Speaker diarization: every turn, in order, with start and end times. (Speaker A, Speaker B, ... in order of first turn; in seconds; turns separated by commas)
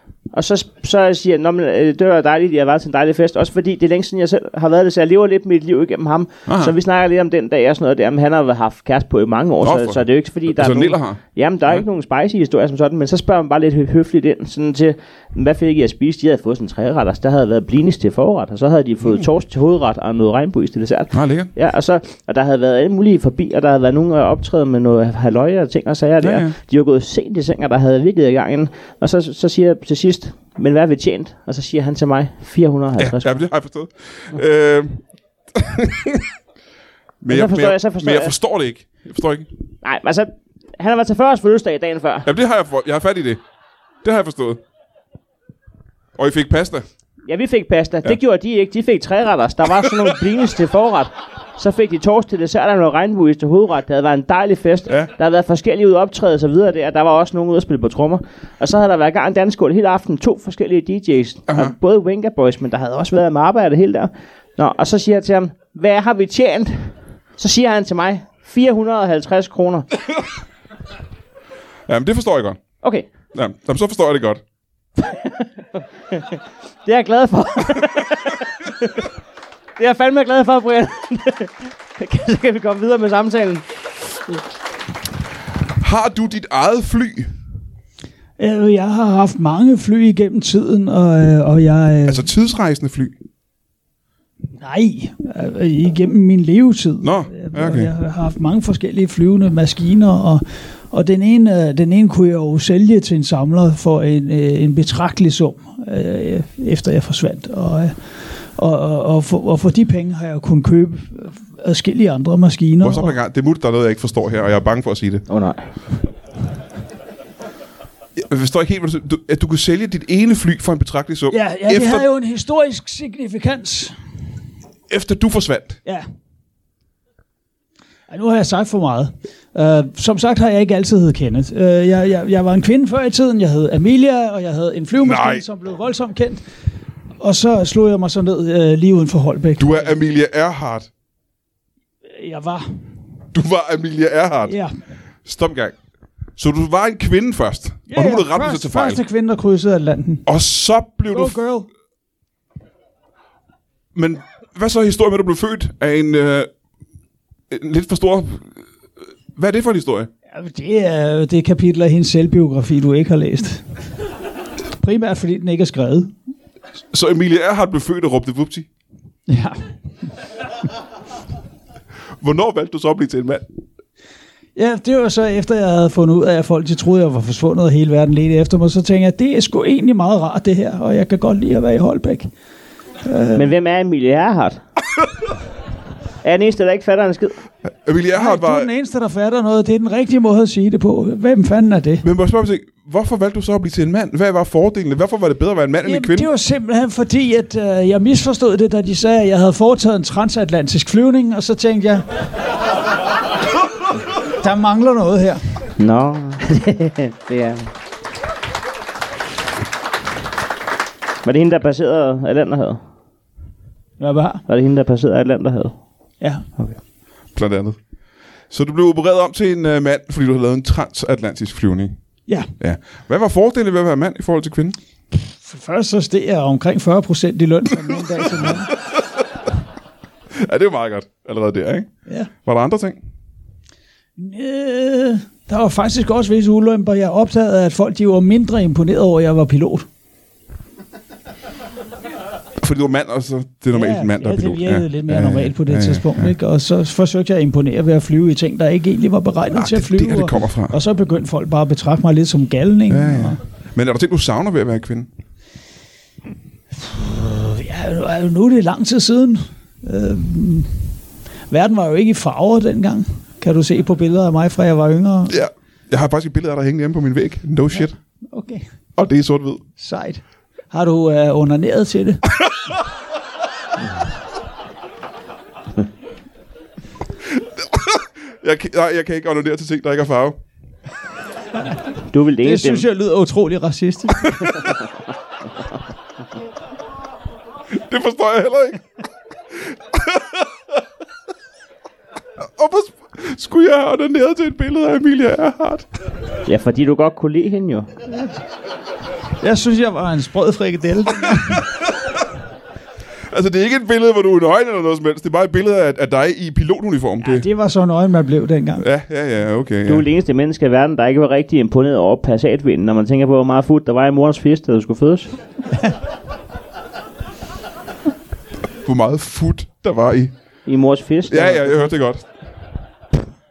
Speaker A: 0.3-33.3, Speaker B: 6.5-6.7, Speaker B: 9.6-11.2, Speaker B: 21.1-21.5, Speaker B: 26.2-26.6, Speaker B: 33.0-36.2, Speaker B: 37.2-39.5, Speaker A: 37.3-38.3, Speaker A: 39.8-42.3, Speaker B: 42.2-43.4, Speaker B: 44.0-44.6, Speaker B: 46.2-46.9, Speaker A: 47.3-69.9, Speaker B: 61.5-61.8, Speaker B: 71.9-72.6, Speaker A: 72.8-73.1, Speaker B: 73.3-74.4, Speaker A: 75.0-79.1, Speaker A: 79.8-84.4, Speaker B: 85.8-87.3, Speaker C: 88.4-92.3, Speaker B: 92.1-93.2, Speaker C: 94.6-113.2, Speaker B: 97.0-97.9, Speaker B: 112.8-115.2, Speaker A: 115.3-115.7, Speaker B: 118.2-122.1, Speaker C: 121.3-124.0, Speaker B: 124.9-125.8, Speaker C: 128.1-136.4, Speaker B: 135.0-135.4, Speaker C: 137.2-139.9, Speaker B: 139.6-140.9, Speaker C: 142.2-142.8, Speaker B: 143.3-144.6, Speaker C: 144.5-144.7, Speaker B: 145.2-145.8, Speaker B: 146.4-149.0, Speaker C: 147.9-150.3, Speaker B: 150.3-151.4, Speaker C: 151.1-151.7, Speaker B: 153.9-156.5, Speaker B: 157.5-158.6, Speaker B: 159.3-160.1, Speaker C: 160.3-163.7, Speaker C: 164.8-166.1, Speaker B: 166.9-168.7, Speaker C: 169.3-169.6, Speaker B: 172.2-173.5, Speaker C: 174.6-182.3, Speaker C: 183.0-183.5, Speaker A: 183.3-184.6, Speaker A: 186.2-187.4, Speaker B: 187.6-188.7, Speaker C: 188.1-192.0, Speaker B: 192.0-196.3, Speaker C: 195.8-202.1, Speaker C: 204.4-205.7, Speaker A: 205.8-207.7, Speaker A: 211.2-212.8, Speaker C: 214.0-214.4, Speaker A: 214.5-215.8, Speaker C: 216.2-216.5, Speaker B: 217.3-217.8, Speaker B: 218.5-222.0, Speaker B: 222.6-224.8, Speaker C: 225.5-228.7, Speaker B: 228.2-228.6, Speaker B: 230.3-231.9, Speaker B: 232.4-233.0, Speaker C: 234.2-239.9, Speaker B: 242.6-246.3, Speaker C: 243.7-253.4, Speaker B: 249.5-250.8, Speaker B: 252.9-255.1, Speaker C: 256.8-260.9, Speaker C: 261.5-265.4, Speaker B: 265.3-268.0, Speaker C: 268.3-268.6, Speaker B: 269.0-269.6, Speaker C: 269.8-272.2, Speaker B: 277.3-280.4, Speaker A: 282.1-282.9, Speaker C: 282.4-284.7, Speaker B: 287.7-288.8, Speaker B: 289.6-290.4, Speaker B: 292.4-295.9, Speaker A: 296.5-297.9, Speaker C: 298.1-298.3, Speaker C: 299.4-301.7, Speaker B: 303.3-307.5, Speaker C: 307.2-308.9, Speaker B: 308.8-310.1, Speaker A: 309.9-315.3, Speaker B: 318.8-320.3, Speaker A: 320.6-321.8, Speaker B: 321.3-322.4